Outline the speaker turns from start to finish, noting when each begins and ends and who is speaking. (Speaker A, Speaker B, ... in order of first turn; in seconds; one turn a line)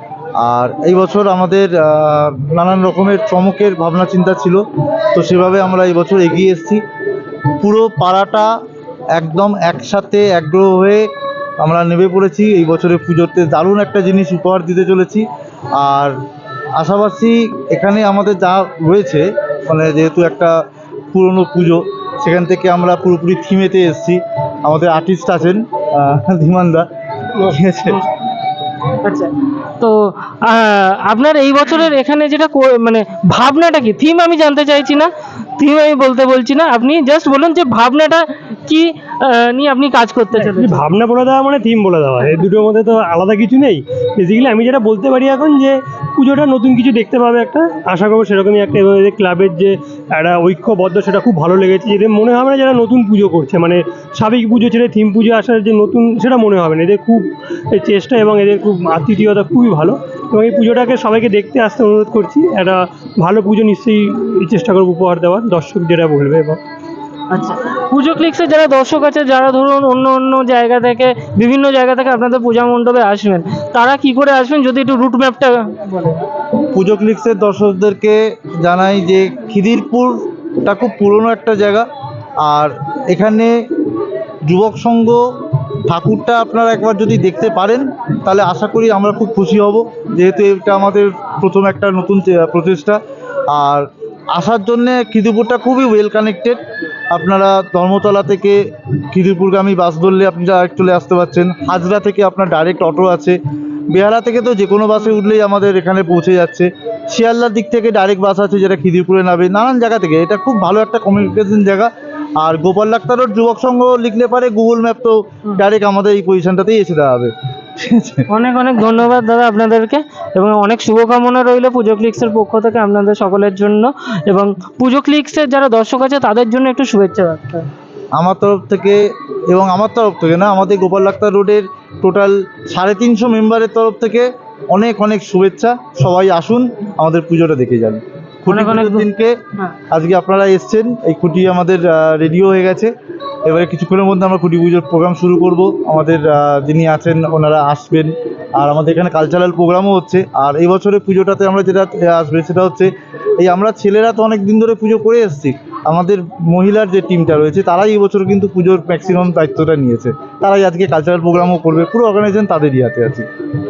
Speaker A: 0.4-6.8
Speaker A: 7.5-8.5
Speaker A: 9.2-16.2
Speaker A: 16.8-20.6
Speaker A: 21.1-28.0
Speaker B: 29.0-40.8
Speaker C: 40.4-66.6
Speaker B: 67.3-76.2
Speaker A: 76.7-81.9
Speaker A: 82.4-83.6
Speaker A: 84.5-103.4
Speaker A: 103.9-118.3
Speaker B: 118.3-127.7
Speaker A: 128.2-139.4
Speaker B: 138.5-139.7
Speaker A: 139.9-142.9
Speaker A: 143.4-163.3